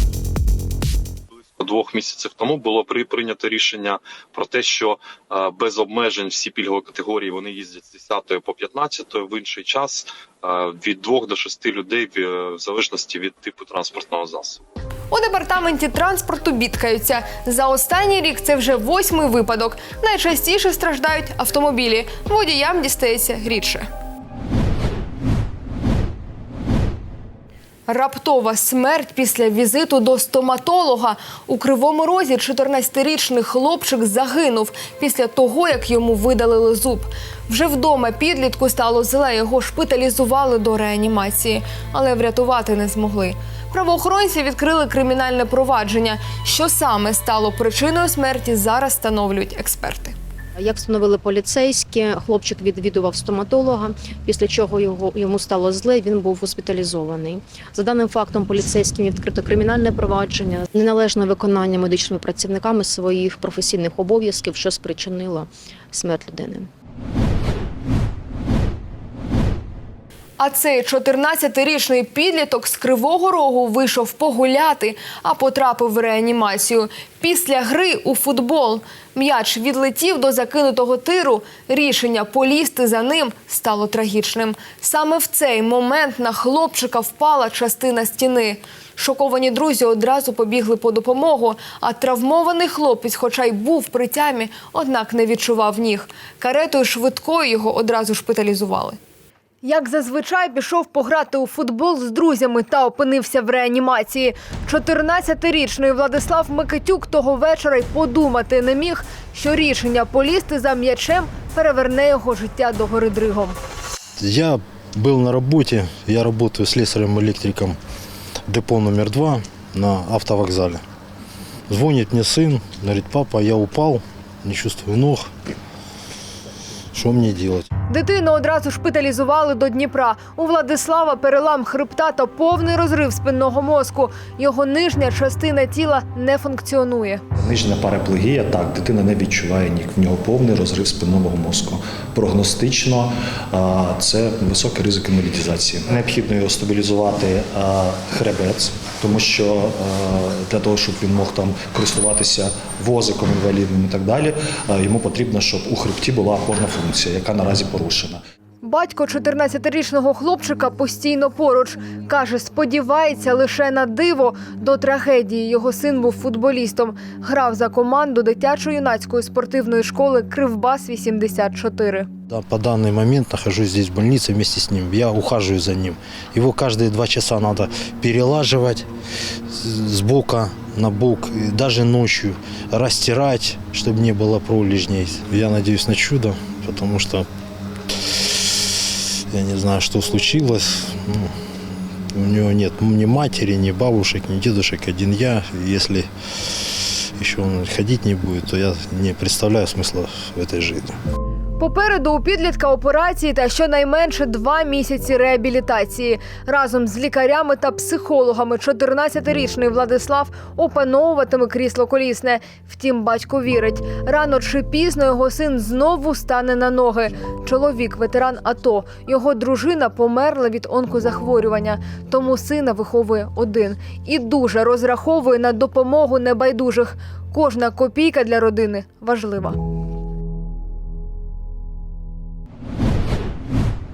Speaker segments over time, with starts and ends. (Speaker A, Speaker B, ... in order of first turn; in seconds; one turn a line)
Speaker A: 1.4-14.6
Speaker B: 15.1-23.9
Speaker B: 27.9-50.1
Speaker C: 50.6-66.7
Speaker B: 70.4-99.0
Speaker B: 99.6-113.6
Speaker D: 114.2-117.8
Speaker D: 118.5-120.8
Speaker D: 121.7-125.3
Speaker D: 126.9-127.7
Speaker B: 127.9-137.2
Speaker E: 137.4-158.2
Speaker B: 158.6-172.1
Speaker D: 172.3-178.9
Speaker D: 179.5-187.3
Speaker D: 188.1-191.3
Speaker D: 192.2-200.9
Speaker B: 201.6-229.6